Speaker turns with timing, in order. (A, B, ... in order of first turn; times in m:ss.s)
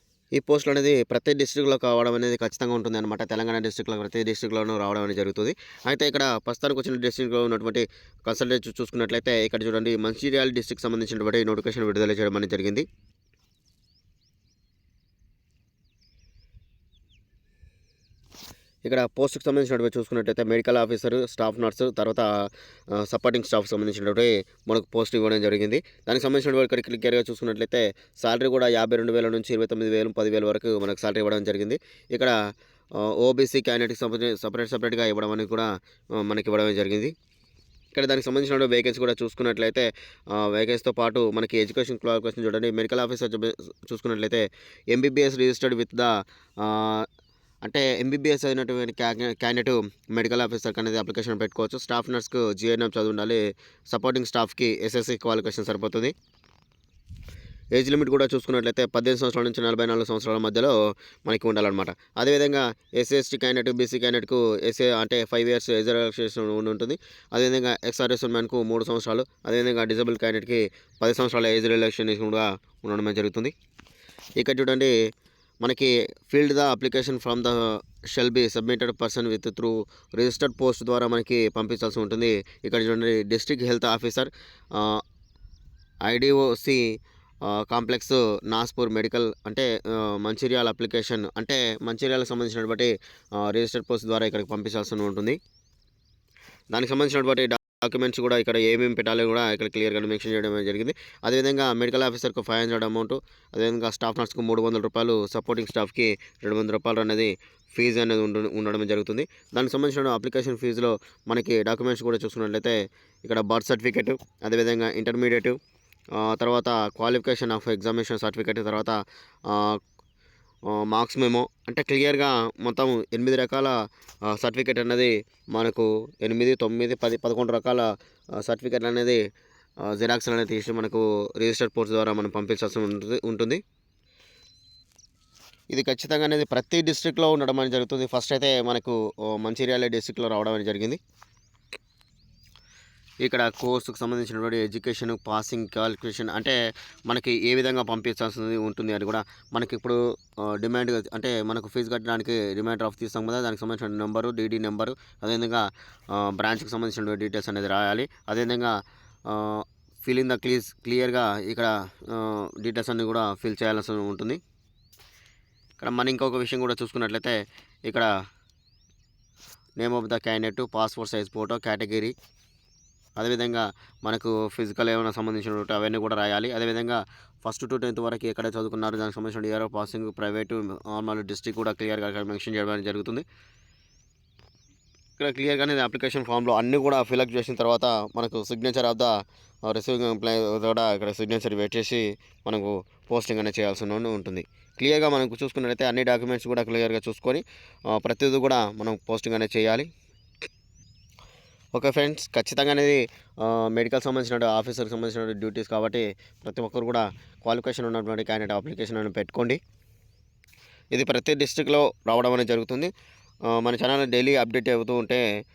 0:00.3-0:12.8 A
0:18.8-0:22.3 A
0:22.9-0:32.3 A
0:33.0-0:37.1 A
0:37.9-0:47.1 A
0:47.6-0:56.1 A
0:57.7-1:00.7 A
1:01.2-1:13.5 A
1:14.4-1:14.9 A
1:15.6-1:25.0 A
1:26.0-1:26.8 A
1:27.4-1:35.4 A
1:36.7-1:55.6 A
1:56.2-1:59.8 A
2:00.7-2:07.8 A
2:08.4-2:09.2 A
2:09.8-2:13.6 A
2:15.7-2:21.0 A
2:23.2-2:26.6 A
2:27.1-2:38.7 A
2:39.3-2:44.4 A
2:45.8-2:48.1 A
2:49.8-2:52.1 A
2:53.2-3:03.2 A
3:05.2-3:19.9 A
3:21.7-3:29.6 A
3:30.9-3:32.9 A
3:33.5-3:35.2 A